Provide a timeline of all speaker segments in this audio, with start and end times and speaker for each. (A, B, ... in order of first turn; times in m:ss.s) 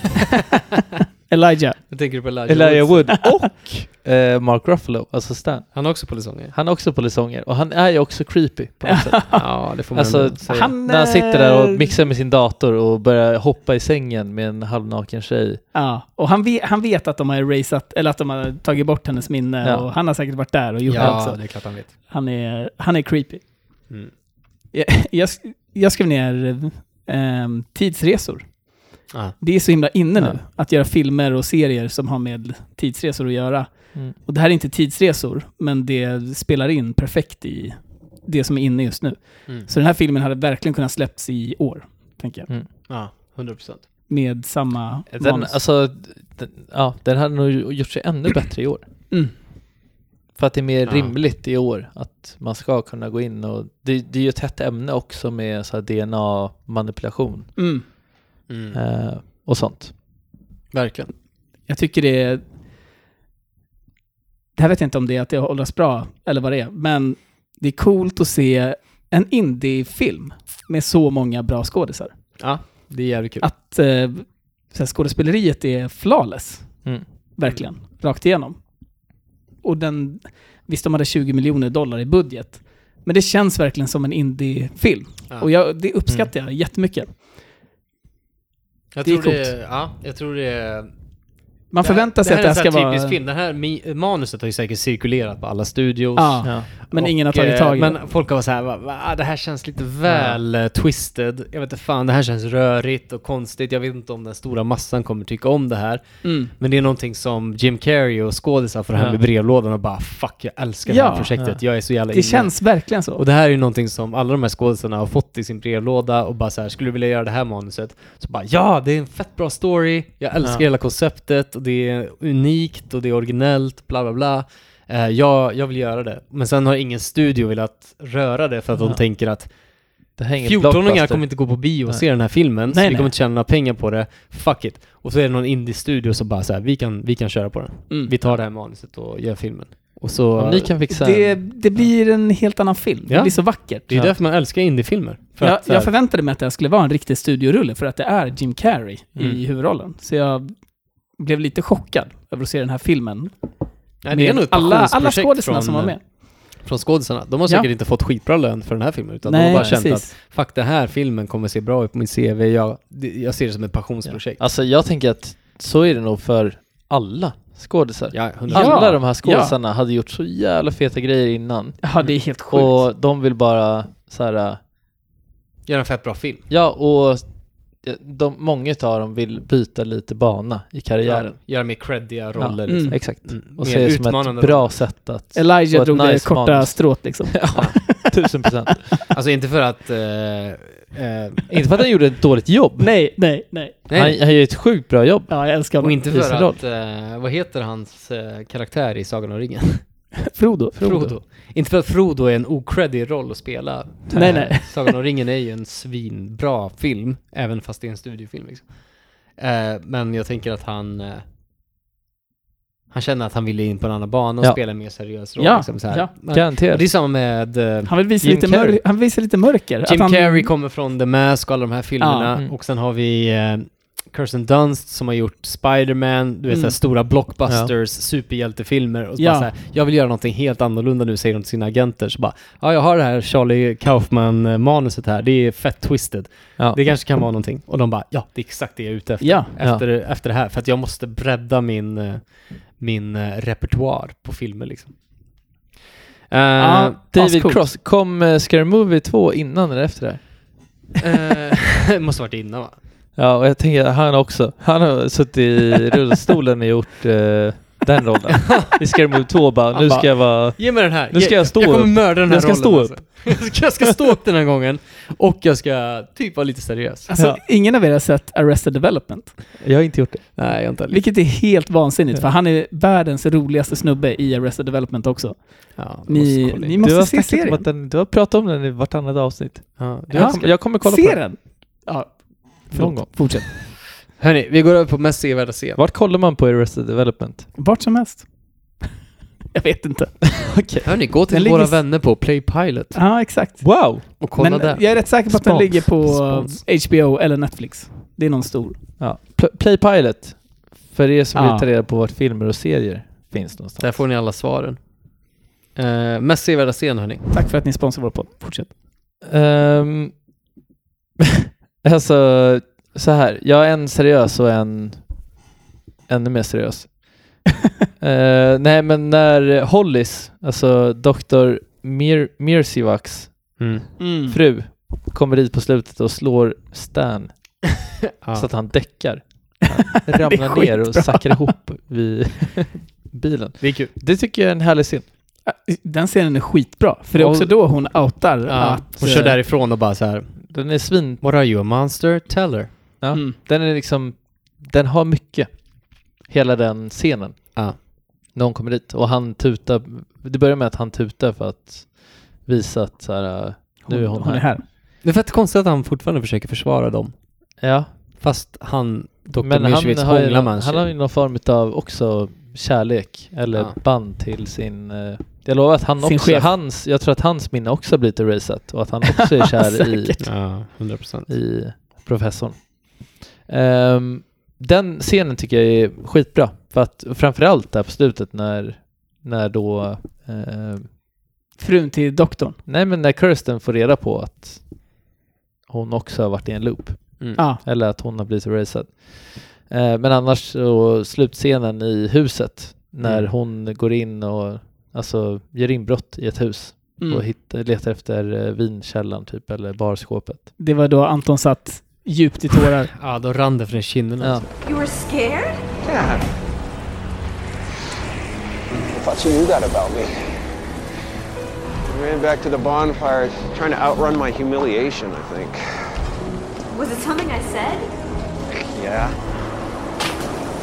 0:01.3-0:01.9 A
0:01.9-0:03.2 B
0:02.5-0:15.6 C
0:05.7-0:06.5 B
0:08.8-0:09.5 A
0:09.4-0:10.7 B
0:10.5-0:11.9 A
0:15.7-0:23.8 A
0:19.6-0:19.9 C
0:20.9-0:21.9 B
0:21.0-0:21.2 C
0:24.7-0:42.5 A
0:29.1-0:29.4 B
0:42.9-0:43.9 B
0:44.1-0:45.6 A
0:45.1-0:48.8 C
0:50.4-0:57.8 C
0:50.9-0:51.1 B
0:57.6-0:57.8 A
0:58.5-0:58.8 B
0:58.7-1:00.0 C
1:00.7-1:01.1 B
1:01.6-1:02.4 A
1:04.6-1:12.8 A
1:12.4-1:13.5 B
1:13.4-1:18.7 A
1:19.6-1:27.1 A
1:28.9-1:31.0 B
1:29.0-1:29.5 A
1:31.7-1:33.2 A
1:31.8-2:09.6 B
1:36.2-1:38.0 A
1:36.4-1:36.7 C
1:40.0-1:40.4 C
1:46.2-1:46.5 A
1:48.9-1:49.2 C
1:50.9-1:51.4 A
1:52.1-1:53.2 A
2:08.8-2:09.0 C
2:10.2-2:12.0 C
2:10.4-2:20.8 B
2:12.7-2:13.1 A
2:20.4-2:21.9 C
2:20.9-2:23.8 A
2:23.1-2:25.9 B
2:25.4-2:36.0 A
2:34.0-2:44.4 B
2:39.3-2:40.1 A
2:39.5-2:39.8 C
2:44.0-2:54.6 C
2:48.1-2:48.8 B
2:48.5-2:49.6 A
2:51.8-2:52.8 A
2:55.7-2:56.5 B
2:56.5-3:01.4 C
3:01.0-3:04.9 B
3:02.4-3:09.0 C
3:02.7-3:03.0 A
3:05.3-3:08.2 A
3:09.1-3:11.4 B
3:11.5-3:12.9 C
3:12.8-3:13.8 A
3:13.9-3:14.2 B
3:13.9-3:16.6 C
3:15.3-3:16.0 A
3:15.8-3:20.2 B
3:20.3-3:20.8 A
3:20.8-3:21.2 C
3:20.8-3:31.2 B
3:24.1-3:24.5 C
3:24.2-3:24.8 A
3:32.9-3:38.0 B
3:35.4-3:36.1 A
3:36.3-3:36.8 C
3:37.9-3:40.5 A
3:38.2-3:38.8 C
3:39.8-4:05.5 B
3:42.0-3:42.3 A
3:46.5-3:46.8 A
3:47.5-3:47.7 C
3:49.2-3:49.5 A
3:59.2-3:59.5 A
4:06.3-4:07.0 B
4:06.6-4:07.6 A
4:07.1-4:10.4 C
4:11.0-4:12.8 B
4:13.2-4:23.6 C
4:19.8-4:27.1 B
4:27.1-4:29.4 A
4:27.2-4:27.4 C
4:29.6-4:30.3 C
4:30.4-4:31.1 B
4:30.9-4:37.7 A
4:35.8-4:36.8 B
4:36.8-4:41.3 C
4:39.8-4:40.5 B
4:40.1-4:43.5 A
4:42.7-4:43.5 C
4:44.2-4:45.8 B
4:45.8-4:47.5 C
4:47.6-4:48.8 A
4:49.5-4:50.5 A
4:50.4-4:50.9 C
4:50.8-4:53.0 B
4:51.3-4:51.8 A
4:52.9-4:58.9 A
4:53.6-4:54.1 C
4:54.2-4:56.6 B
4:59.0-5:04.0 C
5:01.4-5:01.7 A
5:03.8-5:07.3 B
5:07.3-5:08.7 A
5:09.2-5:10.2 C
5:11.8-5:15.3 C
5:16.1-5:17.4 C
5:18.0-5:23.7 C
5:23.6-5:23.9 B
5:24.0-5:24.4 A
5:24.3-5:27.6 C
5:28.2-5:28.5 B
5:28.3-5:35.1 C
5:29.9-5:31.5 A
5:33.6-5:33.9 B
5:35.4-5:39.4 A
5:37.2-5:37.6 B
5:38.5-5:40.5 B
5:40.4-5:41.2 C
5:41.2-5:42.7 B
5:43.0-5:54.5 C
5:53.9-5:54.6 A
5:55.0-5:57.2 B
5:57.6-5:57.9 C
5:58.2-6:00.9 B
5:59.4-6:10.2 C
6:06.0-6:06.5 A
6:09.2-6:10.3 A
6:10.2-6:11.3 B
6:11.3-6:21.0 C
6:21.6-6:22.6 A
6:22.7-6:25.0 C
6:25.7-6:40.5 C
6:27.4-6:27.6 A
6:33.0-6:33.3 B
6:37.0-6:37.2 A
6:40.6-6:42.9 A
6:43.0-6:44.5 B
6:44.6-6:45.6 D
6:45.9-6:46.2 E
6:48.9-6:50.1 E
6:51.9-6:55.6 E
6:56.7-6:57.9 D
6:58.7-6:59.2 E